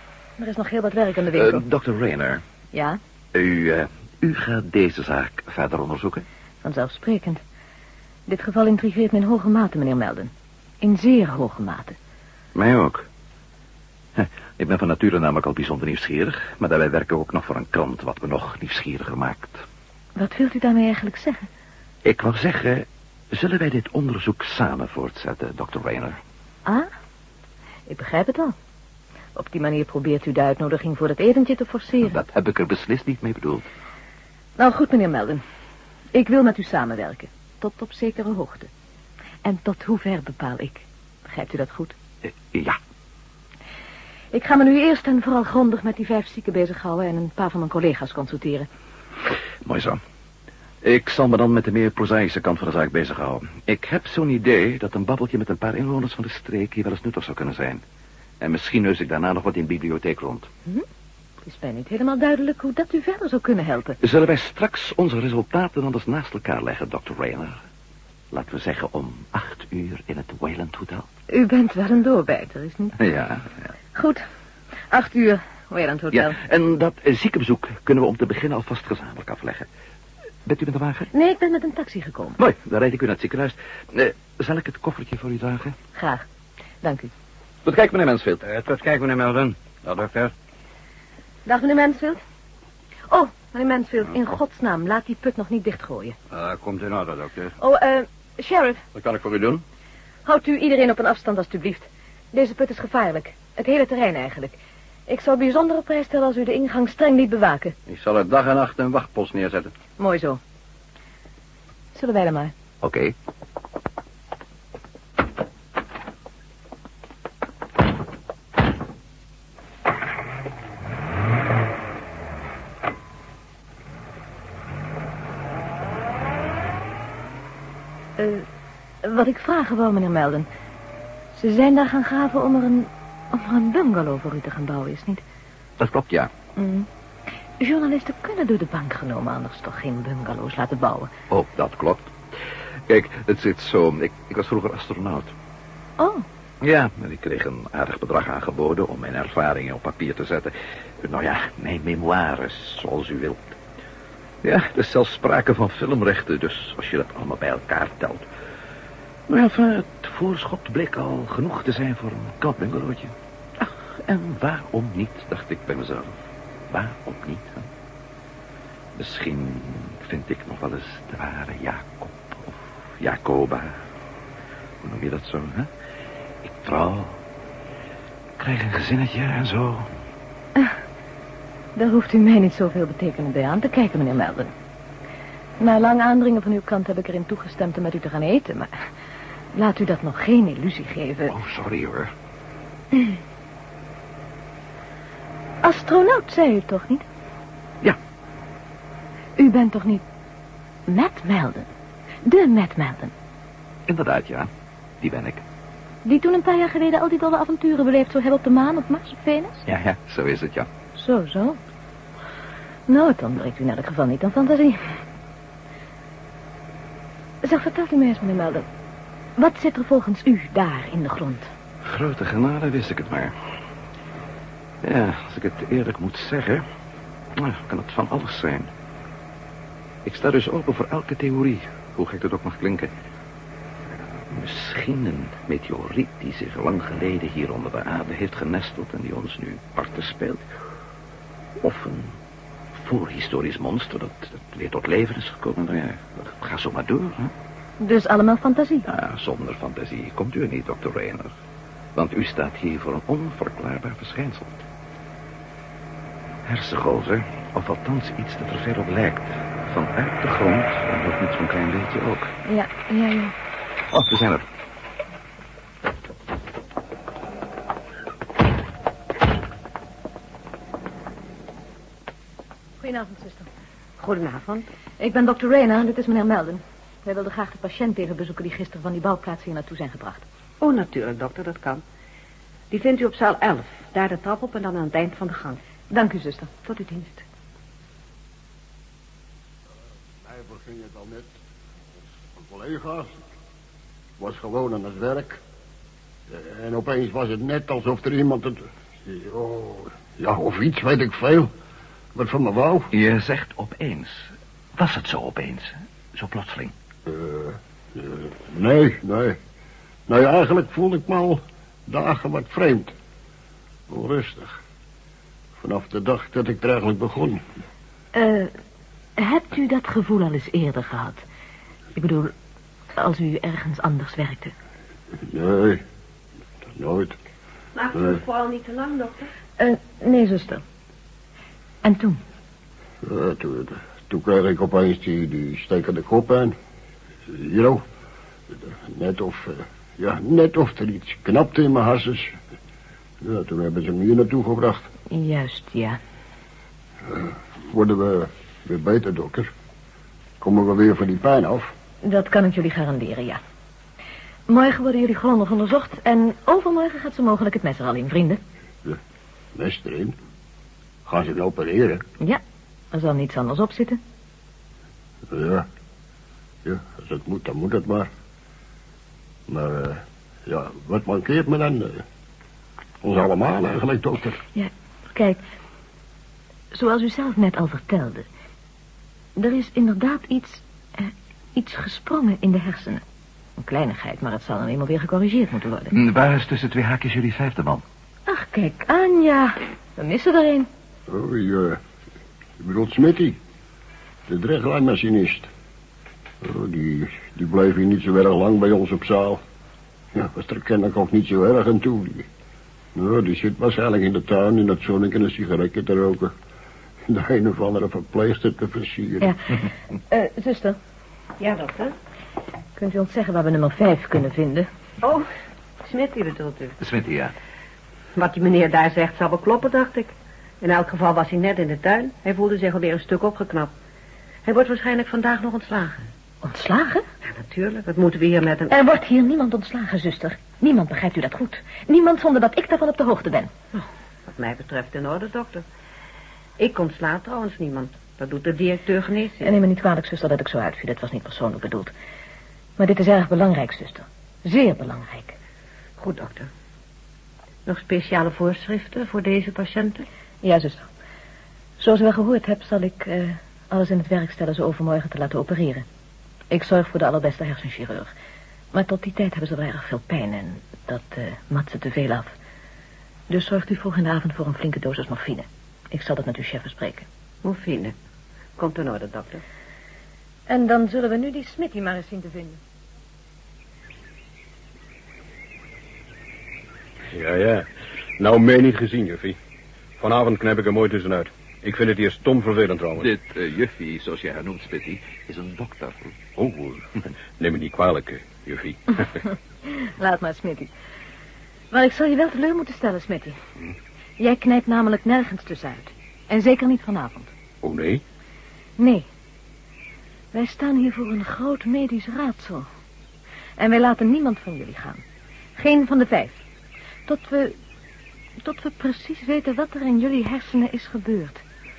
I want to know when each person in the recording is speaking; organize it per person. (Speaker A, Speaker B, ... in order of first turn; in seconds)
Speaker A: 0.4-1.6, 2.7-3.0, 6.6-7.4, 8.3-11.9, 20.1-21.4, 27.9-28.5, 29.3-32.2, 34.6-35.4, 36.1-38.7, 39.4-41.9, 44.3-48.7, 61.4-64.0, 71.3-73.0, 73.9-74.2, 74.9-76.4, 81.1-82.4, 85.9-86.2, 86.8-87.1, 91.5-92.2, 93.1-96.1, 97.6-98.8, 100.2-104.5, 105.1-107.7, 110.0-110.4, 111.9-112.5, 128.2-128.4, 129.0-130.5, 131.3-135.2, 136.6-136.9, 137.6-141.1, 146.0-146.2, 181.7-184.5, 185.6-188.7, 189.5-191.3, 195.6-197.0, 199.4-200.0, 200.9-201.7, 202.2-203.1, 206.0-209.7, 210.9-211.6, 212.9-214.8, 217.4-218.7, 219.4-221.5, 247.8-248.9, 262.4-263.3, 272.8-273.5, 275.0-280.2, 285.9-286.5, 318.1-318.5, 319.2-321.2, 321.9-322.3, 322.9-324.5, 329.6-330.6, 331.8-332.2, 345.1-346.0, 352.0-353.4, 354.5-358.4, 362.9-364.0, 374.5-375.4, 376.7-378.2, 379.4-383.0, 383.6-385.9, 388.3-390.7, 410.1-410.8, 412.8-414.7, 426.4-427.0, 428.7-433.5, 439.4-441.9, 442.8-445.4, 450.4-450.8, 451.8-455.8, 456.5-458.1, 458.7-462.3, 463.3-467.1, 470.5-472.6, 489.6-490.7, 491.7-493.4, 494.2-497.3, 498.8-499.1, 500.3-502.6, 503.6-505.0, 505.6-506.4, 507.1-507.6, 508.4-511.4
Speaker B: 1.3-2.4, 3.3-6.2, 12.5-13.1, 14.2-19.6, 22.0-26.2, 32.0-33.7, 42.2-42.8, 49.6-50.0, 50.8-57.8, 58.4-60.5, 64.0-67.6, 68.3-71.1, 73.0-73.5, 76.1-79.7, 80.4-81.1, 82.4-85.7, 87.6-88.5, 99.0-99.5, 107.9-109.3, 112.8-113.1, 135.8-136.3, 141.3-142.1, 142.9-145.3, 146.6-153.6, 154.4-158.2, 159.3-166.1, 166.7-167.6, 168.9-173.8, 174.8-175.7, 176.4-177.2, 178.4-179.9, 191.3-192.1, 203.9-204.5, 205.0-205.4, 209.7-210.7, 221.8-223.3, 224.8-226.6, 227.4-228.7, 230.0-232.9, 234.3-240.4, 241.6-242.1, 242.7-247.3, 248.9-251.3, 251.9-254.6, 256.4-262.3, 263.9-264.4, 302.9-306.7, 385.9-387.8, 416.8-417.3, 483.0-486.0
Speaker C: 88.4-90.3, 96.3-97.5, 99.0-99.6, 107.9-109.7
Speaker D: 274.0-274.7, 280.6-281.8, 282.7-285.6, 286.6-287.2, 327.7-329.3, 411.4-411.9, 415.0-415.3, 415.8-416.7, 418.1-423.7, 424.4-426.0, 427.3-428.7, 433.7-435.6, 436.6-439.6, 446.0-446.5, 447.6-450.0, 467.4-467.9, 468.6-469.4
Speaker E: 290.2-291.3, 292.3-293.2, 294.2-295.4, 296.3-301.5, 302.1-302.9, 307.1-309.4, 310.1-312.9, 313.9-314.6, 315.6-317.4, 325.2-325.8, 326.8-327.1, 327.9-328.2, 333.0-336.5, 337.3-337.8, 338.9-342.3, 343.2-344.8, 347.1-349.5, 350.4-351.7, 359.5-360.1, 361.1-362.0, 365.3-365.7, 366.6-368.1, 369.5-372.0, 373.0-374.4, 391.1-391.8, 392.6-393.4, 394.3-395.5, 396.4-399.4, 400.1-402.2, 402.9-406.3, 407.1-409.4
Speaker F: 477.1-479.4, 480.0-483.1, 486.4-489.2, 497.6-498.0